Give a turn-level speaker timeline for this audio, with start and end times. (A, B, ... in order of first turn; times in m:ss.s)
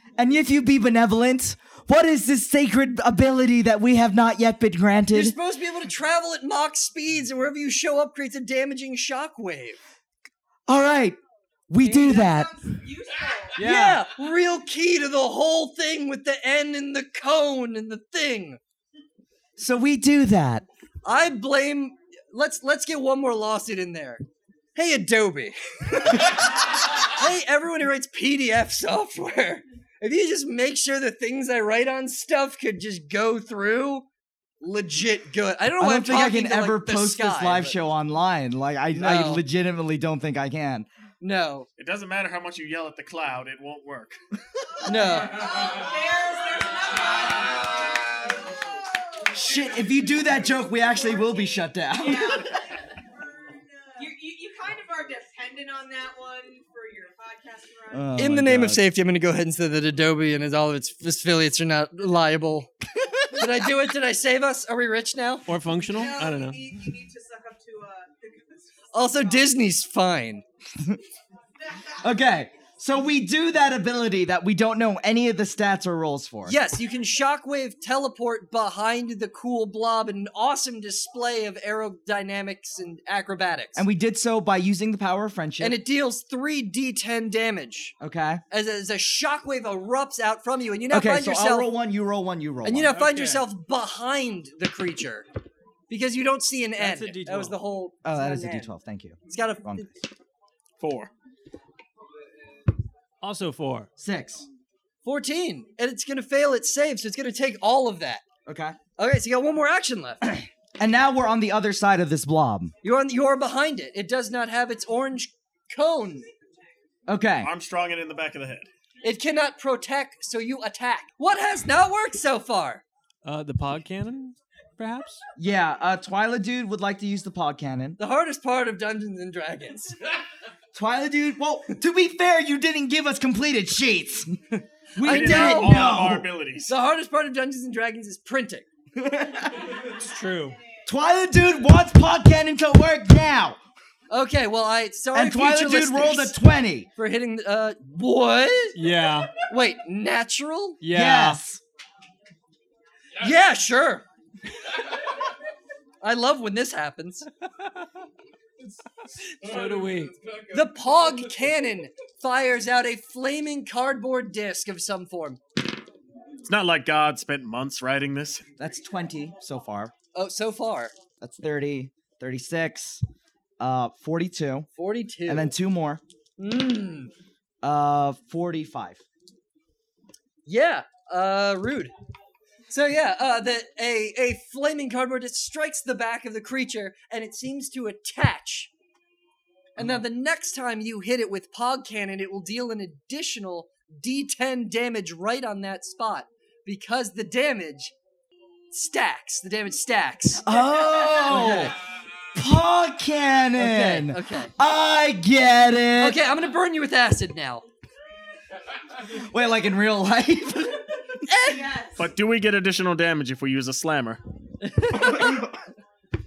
0:00.2-0:05.4 A
0:05.1-0:09.8 B
0:10.7-0:11.2 A
0:11.7-0:12.7 A
0:11.8-0:13.6 C
0:13.6-0:18.6 B
0:13.6-0:14.0 A
0:13.6-0:13.9 D
0:19.6-0:20.6 A
0:21.0-0:24.2 B
0:24.7-0:34.0 B
0:34.6-0:37.7 B
0:35.8-0:40.8 A
0:38.9-0:39.4 B
0:41.2-0:41.7 B
0:41.8-0:44.2 E
0:44.8-0:45.6 B
0:45.1-0:49.0 C
0:49.3-0:52.6 A
0:52.0-0:58.1 C
0:57.9-0:58.8 A
0:58.2-1:02.7 B
1:03.0-1:03.5 A
1:03.3-1:05.4 B
1:05.5-1:06.6 D
1:05.9-1:09.5 C
1:08.9-1:10.4 B
1:12.0-1:16.6 A
1:16.4-1:23.8 B
1:23.7-1:25.8 A
1:25.6-1:27.9 B
1:28.0-1:28.4 A
1:28.5-1:31.7 B
1:30.9-1:33.0 A
1:32.6-1:35.2 B
1:32.9-1:33.5 D
1:35.9-1:38.7 B
1:36.8-1:37.6 D
1:38.0-1:39.9 A
1:39.3-1:39.9 B
1:40.8-1:41.1 E
1:43.2-1:43.9 D
1:44.0-1:44.4 A
1:45.0-1:48.2 B
1:48.4-1:48.8 A
1:49.0-1:50.2 B
1:50.8-1:52.7 A
1:52.8-1:56.3 B
1:57.1-1:57.5 A
1:57.4-1:58.7 E
1:59.0-2:02.8 B
2:03.2-2:05.2 D
2:05.4-2:08.0 A
2:08.0-2:10.0 B
2:10.7-2:14.4 A
2:15.0-2:16.3 A
2:15.0-2:15.9 B
2:15.0-2:16.7 E
2:16.7-2:18.6 B
2:18.9-2:19.9 A
2:19.9-2:20.6 D
2:20.8-2:23.6 A
2:24.1-2:26.4 B
2:25.1-2:26.9 A
2:27.0-2:28.8 B
2:28.7-2:29.3 D
2:29.4-2:30.8 B
2:30.8-2:31.4 D
2:30.9-2:31.6 A
2:33.2-2:34.0 B
2:36.0-2:37.3 B
2:39.3-2:40.2 D
2:40.5-2:45.4 B
2:46.5-2:48.4 E
2:48.6-2:49.9 A
2:50.1-2:50.9 B
2:51.2-2:53.0 A
2:53.6-2:54.7 A
2:54.8-2:55.5 B
2:55.3-2:56.0 A
2:56.4-2:57.1 B
2:57.6-2:59.0 A
3:00.4-3:01.9 B
3:02.7-3:08.7 B
3:09.8-3:10.0 A
3:09.8-3:17.9 B
3:18.7-3:21.8 B
3:20.4-3:21.8 A
3:22.3-3:26.2 A
3:23.6-3:24.5 B
3:26.0-3:27.6 B
3:29.1-3:31.0 A
3:31.3-3:31.7 B
3:31.4-3:32.1 C
3:32.0-3:34.2 E
3:34.6-3:35.5 B